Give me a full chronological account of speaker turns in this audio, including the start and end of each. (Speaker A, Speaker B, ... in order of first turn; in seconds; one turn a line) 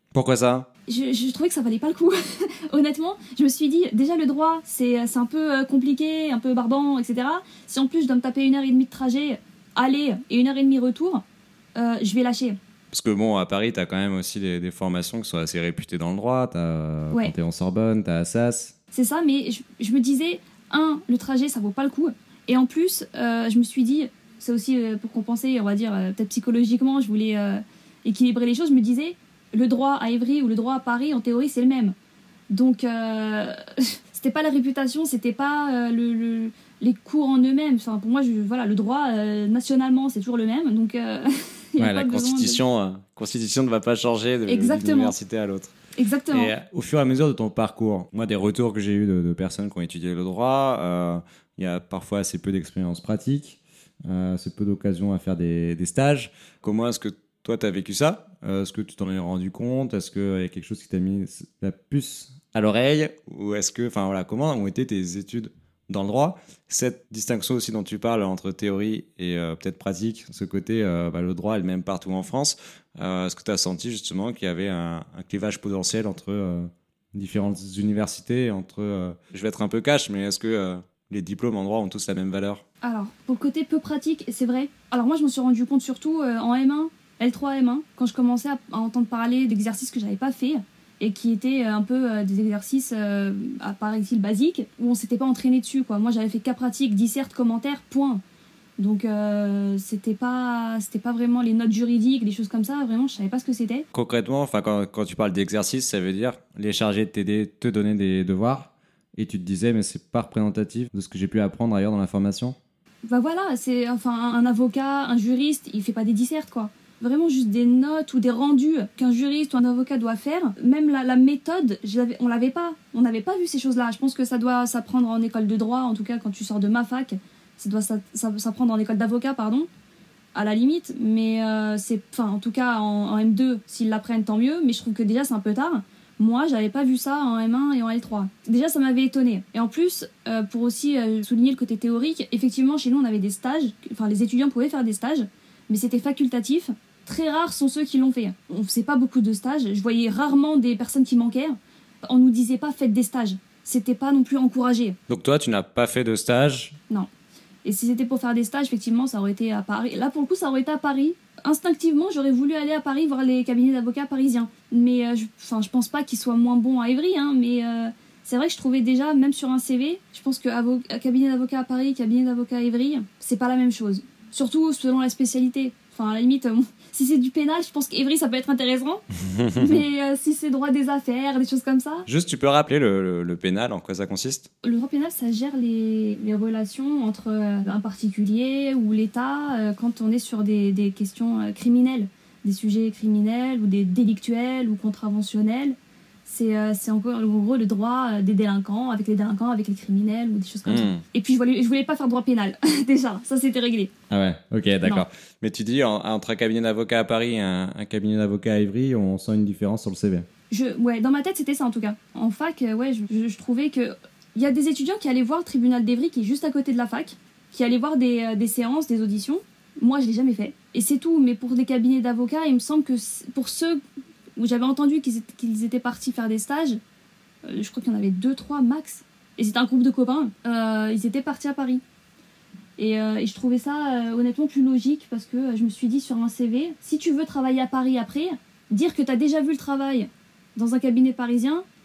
Speaker A: 0.1-0.7
Speaker B: 0.9-11.2
Speaker B: 11.8-12.6
Speaker A: 12.9-18.8
Speaker B: 18.9-31.9
Speaker B: 32.5-42.6
Speaker A: 41.8-45.8
Speaker B: 44.5-45.1
Speaker B: 46.0-46.5
Speaker A: 46.3-82.6
Speaker B: 82.8-98.2
Speaker B: 98.8-103.9
Speaker A: 103.9-112.6
Speaker B: 113.1-129.7
Speaker B: 130.3-155.0
Speaker A: 155.1-156.8
Speaker B: 157.7-179.0
Speaker A: 179.3-179.8
Speaker B: 179.6-182.1
Speaker A: 182.1-184.5
Speaker B: 184.6-203.9
Speaker A: 200.7-201.0
Speaker A: 204.1-210.3
Speaker B: 210.5-223.8
Speaker B: 224.4-226.8
Speaker B: 227.4-231.8
Speaker B: 232.8-241.7